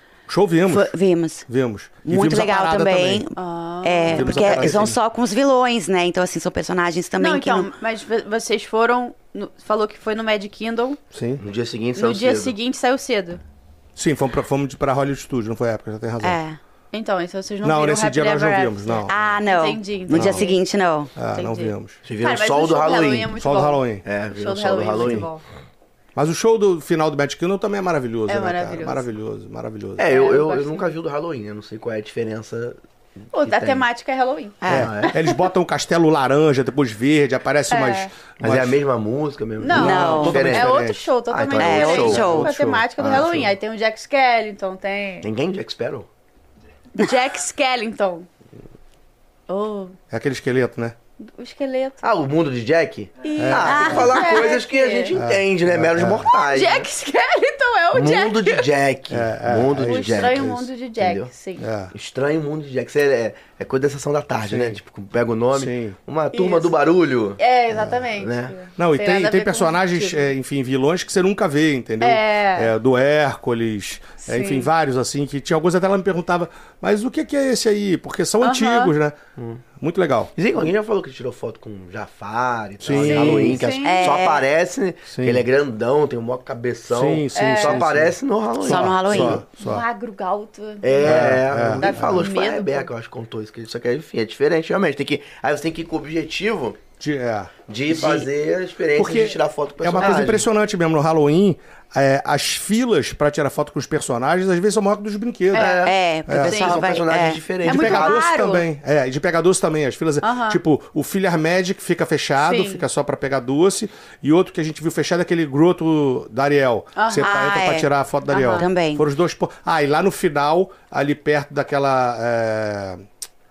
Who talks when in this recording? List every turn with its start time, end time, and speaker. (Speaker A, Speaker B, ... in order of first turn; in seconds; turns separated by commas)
Speaker A: 0.3-0.9, Speaker B: 0.7-1.5, Speaker A: 1.5-3.2, Speaker B: 2.0-7.7, Speaker C: 3.4-4.8, Speaker A: 4.1-5.0, Speaker C: 7.2-11.0, Speaker A: 11.1-11.4, Speaker D: 11.4-12.6, Speaker C: 12.0-13.4, Speaker A: 14.0-16.4, Speaker B: 16.2-16.6, Speaker C: 16.9-20.6, Speaker A: 17.6-19.2, Speaker B: 19.1-21.1, Speaker A: 20.1-20.5, Speaker A: 21.2-22.0, Speaker C: 21.3-25.4, Speaker D: 22.1-23.4, Speaker A: 23.4-24.0, Speaker D: 24.0-25.3, Speaker A: 25.0-25.3, Speaker A: 26.2-30.2, Speaker C: 28.3-29.1, Speaker D: 30.0-33.9, Speaker C: 30.1-30.9, Speaker C: 33.3-34.6, Speaker B: 34.6-34.9, Speaker D: 34.7-35.1, Speaker A: 34.7-38.8, Speaker C: 37.7-38.1, Speaker D: 38.4-40.7, Speaker C: 39.6-45.3, Speaker A: 39.7-41.1, Speaker B: 39.7-40.4, Speaker D: 41.3-42.4, Speaker B: 41.6-42.5, Speaker A: 41.7-43.4, Speaker D: 43.0-43.5, Speaker D: 45.2-46.1, Speaker C: 47.0-48.3, Speaker C: 49.5-50.0, Speaker A: 50.1-51.0, Speaker C: 51.2-52.0, Speaker D: 52.0-56.9, Speaker C: 53.2-55.1, Speaker A: 53.4-54.1, Speaker B: 53.7-54.5, Speaker A: 55.1-56.3, Speaker C: 56.5-58.7, Speaker D: 57.9-61.3, Speaker A: 59.1-60.7, Speaker C: 59.8-61.7, Speaker A: 61.6-61.9, Speaker D: 61.9-68.5, Speaker A: 64.5-64.8, Speaker A: 65.5-66.0, Speaker C: 66.3-66.8, Speaker C: 67.4-70.3, Speaker A: 68.8-79.2, Speaker C: 72.0-72.7, Speaker C: 74.2-74.7, Speaker C: 78.4-78.9, Speaker A: 79.8-80.3, Speaker D: 80.4-89.4, Speaker A: 82.8-83.6, Speaker C: 82.9-84.2, Speaker B: 83.8-84.4, Speaker A: 85.1-85.5, Speaker A: 86.9-89.8, Speaker C: 87.3-87.8, Speaker B: 88.6-89.4, Speaker C: 89.6-92.9, Speaker D: 90.8-96.8, Speaker A: 91.0-92.3, Speaker A: 97.0-98.3, Speaker D: 97.7-100.5, Speaker A: 99.0-106.6, Speaker C: 105.5-106.9, Speaker D: 105.5-105.9, Speaker B: 105.8-107.4, Speaker D: 106.5-108.3, Speaker C: 107.6-108.7, Speaker A: 107.7-123.0, Speaker C: 110.2-110.6, Speaker C: 112.4-112.8, Speaker C: 117.0-117.6, Speaker B: 117.2-119.0, Speaker C: 118.3-118.7